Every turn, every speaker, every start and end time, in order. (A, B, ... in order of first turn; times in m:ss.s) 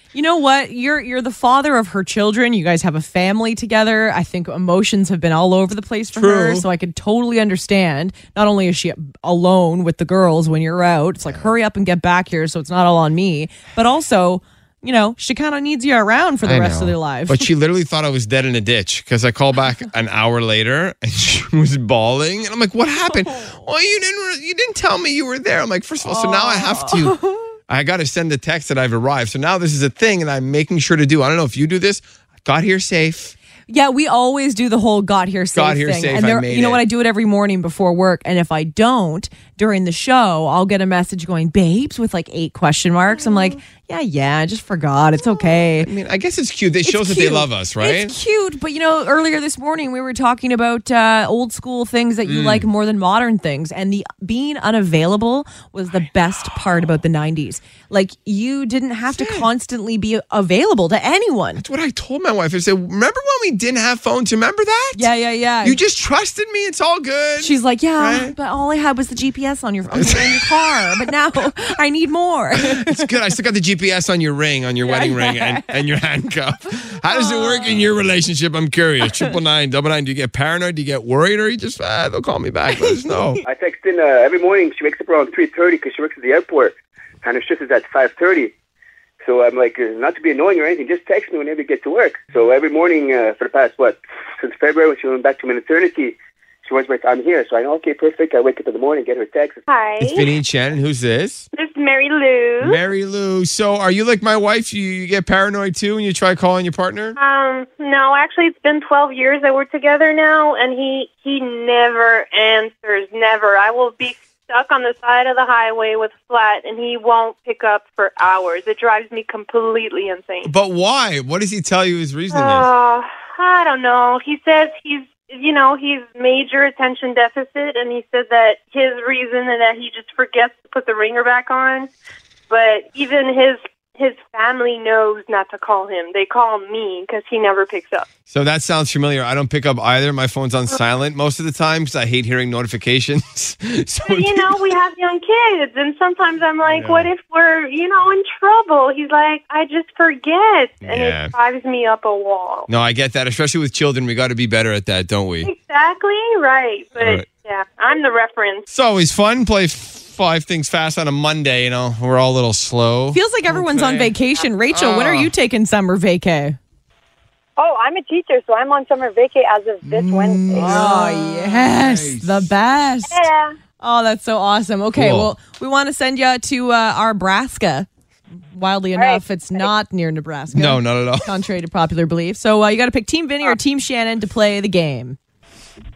0:00.1-0:17.5 A
0:06.1-0:06.7 B
0:16.4-0:33.3 B
0:26.0-0:27.4 A
0:33.7-0:45.9 A
0:35.5-0:36.8 B
0:45.8-0:48.2 B
0:46.8-1:01.6 A
0:52.2-0:52.7 B
0:59.1-0:59.5 B
1:01.6-1:05.1 B
1:05.0-1:05.8 A
1:05.6-1:08.4 B
1:07.4-1:13.0 A
1:09.9-1:11.0 B
1:12.5-1:23.4 B
1:14.8-1:15.7 A
1:17.1-1:17.9 A
1:19.0-1:19.3 A
1:22.7-1:23.4 A
1:23.5-1:28.5 C
1:29.2-1:39.6 C
1:39.7-1:40.3 D
1:40.0-1:41.5 B
1:41.5-1:42.8 D
1:42.6-1:47.2 B
1:47.2-2:00.5 D
2:00.4-2:02.7 B
2:02.3-2:11.9 D
2:12.5-2:18.1 D
2:18.3-2:24.7 B
2:24.0-2:32.7 D
2:26.6-2:27.1 B
2:30.8-2:31.3 B
2:32.7-2:35.5 B
2:35.4-2:38.6 D
2:37.0-2:37.3 B
2:38.7-2:44.1 B
2:43.1-2:46.6 A
2:44.7-2:45.3 B
2:47.6-2:50.6 E
2:49.9-2:52.5 B
2:50.6-2:53.3 A
2:53.1-2:53.6 E
2:53.8-2:57.9 A
2:54.9-2:55.3 B
2:58.5-3:05.2 A
2:59.0-2:59.7 E
3:00.5-3:01.3 B